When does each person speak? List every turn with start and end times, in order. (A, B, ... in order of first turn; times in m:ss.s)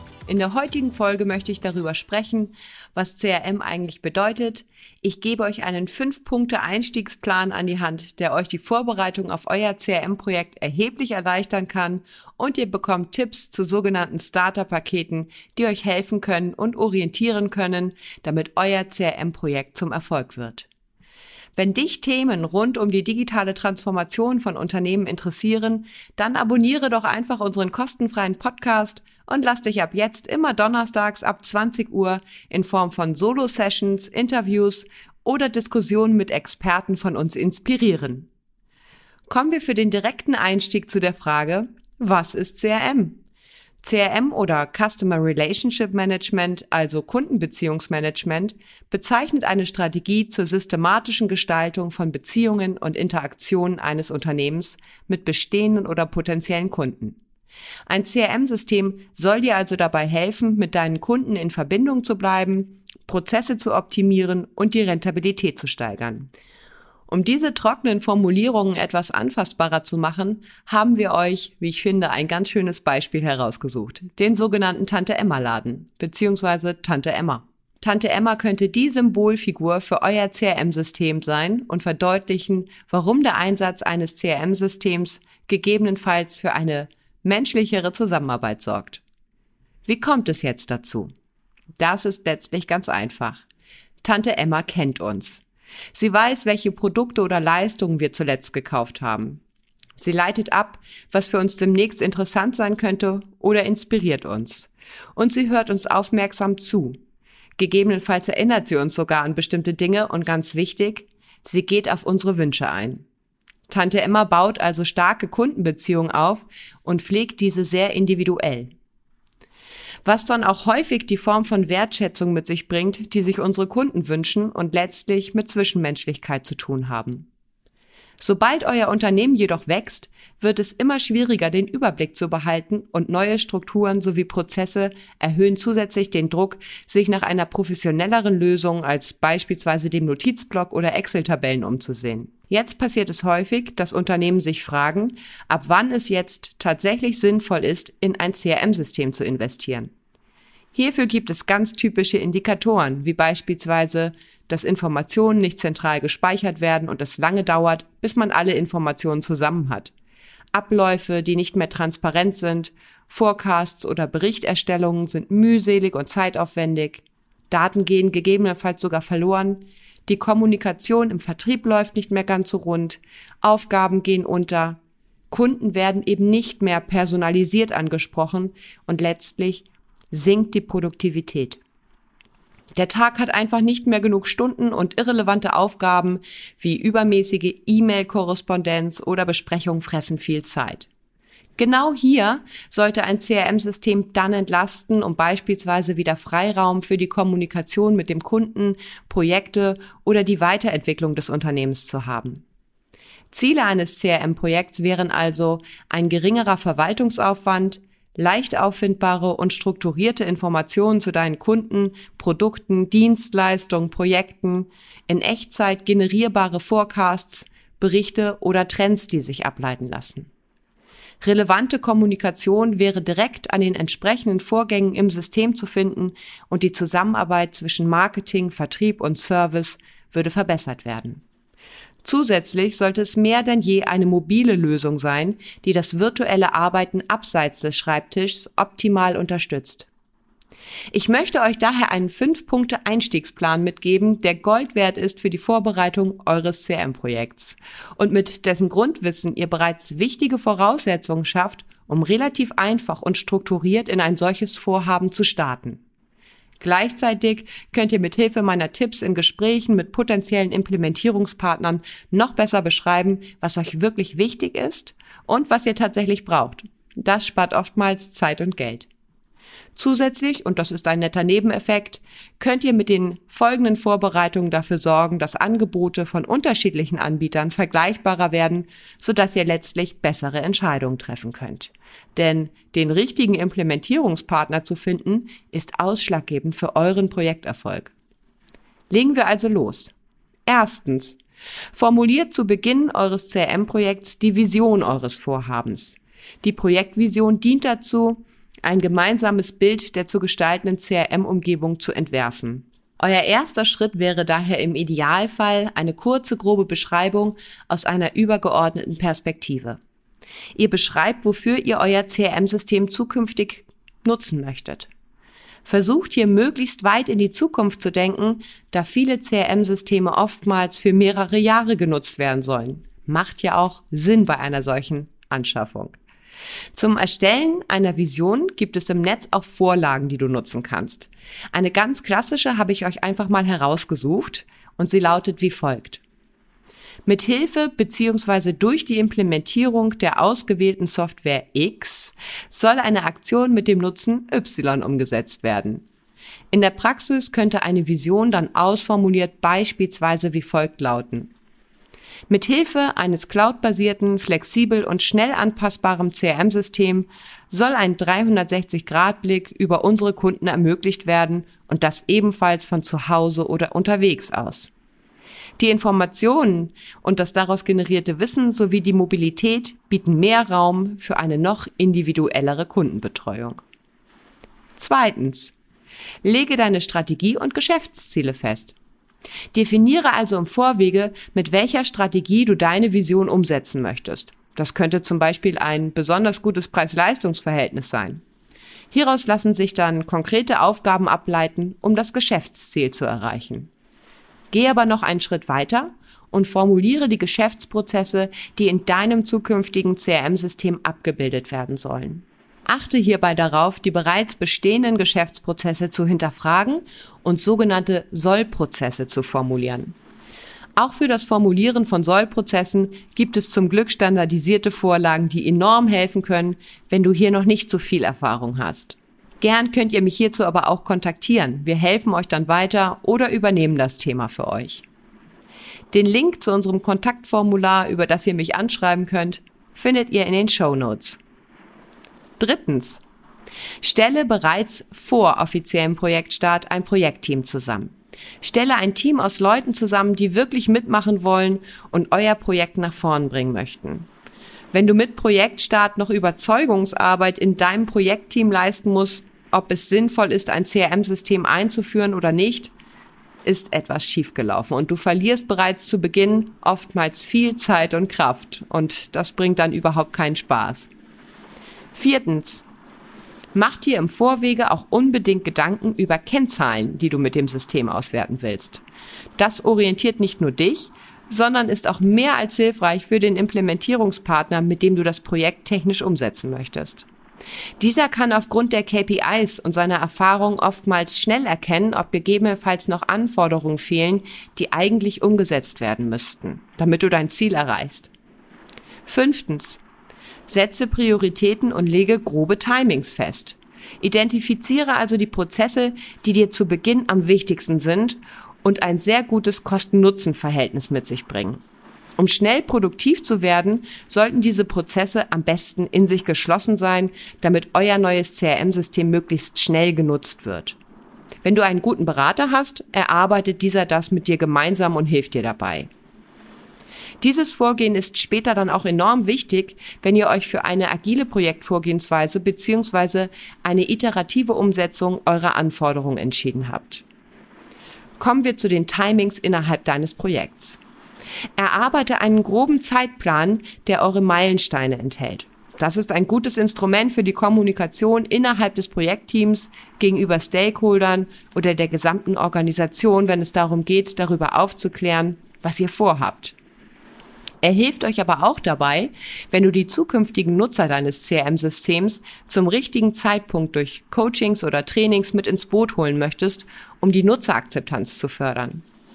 0:00.3-0:20.7 A
0:21.6-0:38.3 A
0:39.3-0:43.2 A
0:43.8-0:57.2 A
0:57.9-1:06.3 A
1:07.1-1:29.0 A
1:29.8-1:31.1 A
1:31.8-1:33.4 A
1:34.0-1:39.4 A
1:40.0-1:47.0 A
1:47.6-1:53.0 A
1:53.7-1:58.7 A
2:00.0-2:07.3 A
2:08.2-2:29.9 A
2:30.7-2:39.9 A
2:40.5-2:54.8 A
2:55.3-3:01.6 A
3:02.8-3:10.9 A
3:11.6-3:22.4 A
3:23.3-3:40.3 A
3:41.2-3:51.2 A
3:52.0-3:59.9 A
4:00.9-4:15.8 A
4:16.6-4:28.9 A
4:29.8-4:47.9 A
4:48.9-4:49.9 A
4:50.5-4:51.2 A
4:51.7-5:09.8 A
5:10.6-5:14.9 A
5:15.7-5:26.0 A
5:26.8-5:36.0 A
5:37.1-5:45.8 A
5:46.5-5:51.3 A
5:52.3-6:04.7 A
6:05.6-6:13.6 A
6:14.8-6:15.6 A
6:16.2-6:18.8 A
6:19.5-6:28.2 A
6:28.9-6:33.7 A
6:34.5-6:50.0 A
6:50.8-7:04.9 A
7:05.9-7:11.2 A
7:12.4-7:13.0 A
7:13.8-7:24.1 A
7:24.7-7:32.7 A
7:33.4-7:40.9 A
7:42.0-7:42.7 A
7:43.5-7:48.8 A
7:49.4-7:57.1 A
7:57.8-8:08.1 A
8:09.1-8:09.8 A
8:10.5-8:21.6 A
8:22.2-8:30.8 A
8:31.4-8:35.9 A
8:37.2-8:47.0 A
8:48.2-8:50.8 A
8:51.6-9:06.6 A
9:07.6-9:18.8 A